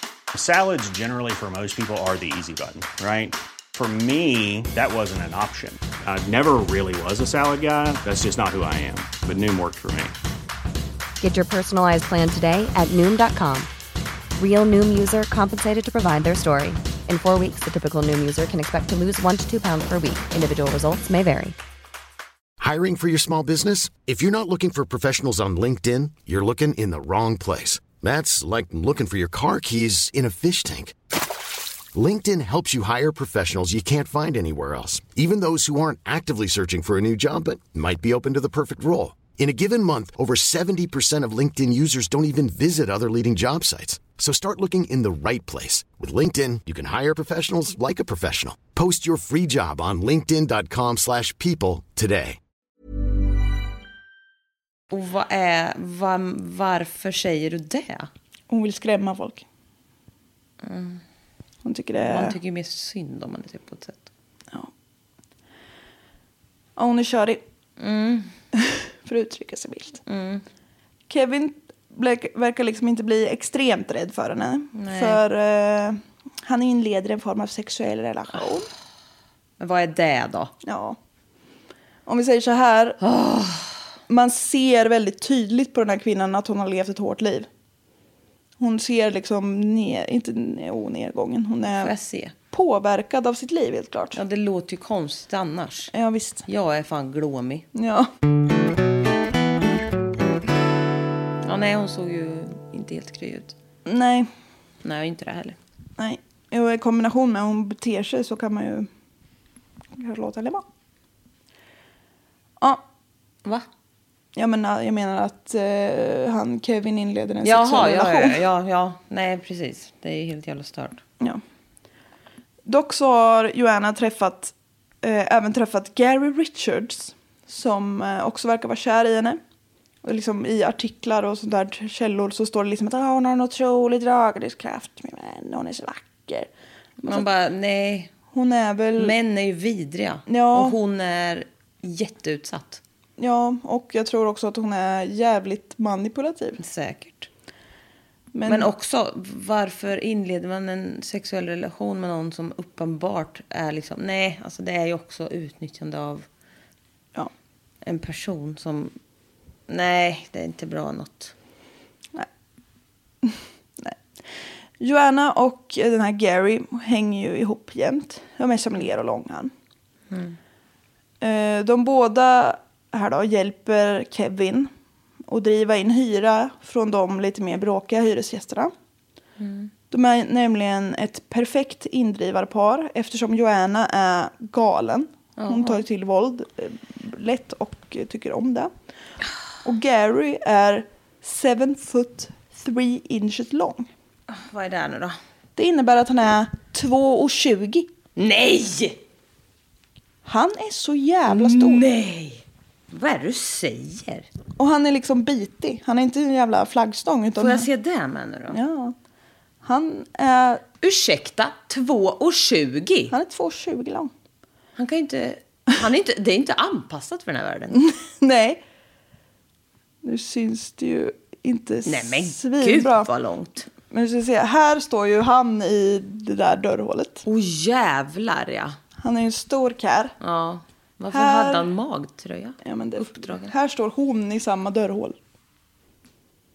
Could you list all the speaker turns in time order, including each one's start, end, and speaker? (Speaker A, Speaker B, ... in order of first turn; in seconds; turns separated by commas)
Speaker A: 0.3-10.2, Speaker B: 11.2-13.7, Speaker B: 14.4-21.6, Speaker C: 22.6-30.9, Speaker C: 31.9-52.4, Speaker D: 54.9-58.1, Speaker E: 58.5-59.5, Speaker D: 60.6-61.0, Speaker E: 61.6-62.4, Speaker D: 62.0-64.1, Speaker E: 66.8-67.4, Speaker D: 67.8-68.3, Speaker E: 68.6-70.0, Speaker D: 70.1-70.5, Speaker E: 71.1-78.7, Speaker D: 74.8-75.2, Speaker D: 79.6-80.5, Speaker E: 80.6-81.0, Speaker E: 82.1-83.0, Speaker D: 83.0-83.8, Speaker E: 84.1-87.5, Speaker E: 88.6-91.9, Speaker D: 91.7-92.3, Speaker E: 92.5-94.2, Speaker D: 94.1-95.9, Speaker E: 95.9-96.5, Speaker D: 96.5-97.7, Speaker E: 97.7-98.1, Speaker D: 101.4-103.5, Speaker E: 103.9-104.3, Speaker D: 104.8-105.6, Speaker E: 106.0-108.9, Speaker E: 110.0-110.6, Speaker E: 114.3-118.4, Speaker D: 117.4-121.0, Speaker E: 122.7-129.4, Speaker E: 130.0-136.5, Speaker D: 137.0-138.1, Speaker E: 138.3-139.1, Speaker D: 139.0-142.8, Speaker E: 140.3-140.8, Speaker E: 143.2-146.6, Speaker D: 146.6-147.3, Speaker E: 148.3-148.7, Speaker D: 148.5-156.3, Speaker D: 157.8-158.9, Speaker D: 159.7-161.3, Speaker E: 163.2-163.9, Speaker E: 164.8-169.5, Speaker D: 170.1-170.4, Speaker E: 171.2-174.7, Speaker E: 175.3-178.7, Speaker D: 179.4-179.7, Speaker E: 179.9-188.7, Speaker D: 185.4-185.8, Speaker E: 189.6-193.9, Speaker D: 194.3-195.2, Speaker E: 195.6-197.9, Speaker D: 198.2-199.0, Speaker E: 200.3-201.8, Speaker D: 201.3-204.3, Speaker E: 204.6-207.7, Speaker D: 207.4-208.6, Speaker E: 208.5-208.9, Speaker E: 209.6-210.6, Speaker D: 210.8-213.2, Speaker E: 213.1-214.1, Speaker D: 214.8-217.8, Speaker E: 217.7-218.6, Speaker E: 220.0-223.1, Speaker D: 221.8-223.7, Speaker E: 223.9-227.2, Speaker D: 227.2-228.8, Speaker E: 229.0-230.1, Speaker D: 230.2-233.5, Speaker E: 231.1-231.7, Speaker E: 232.6-235.2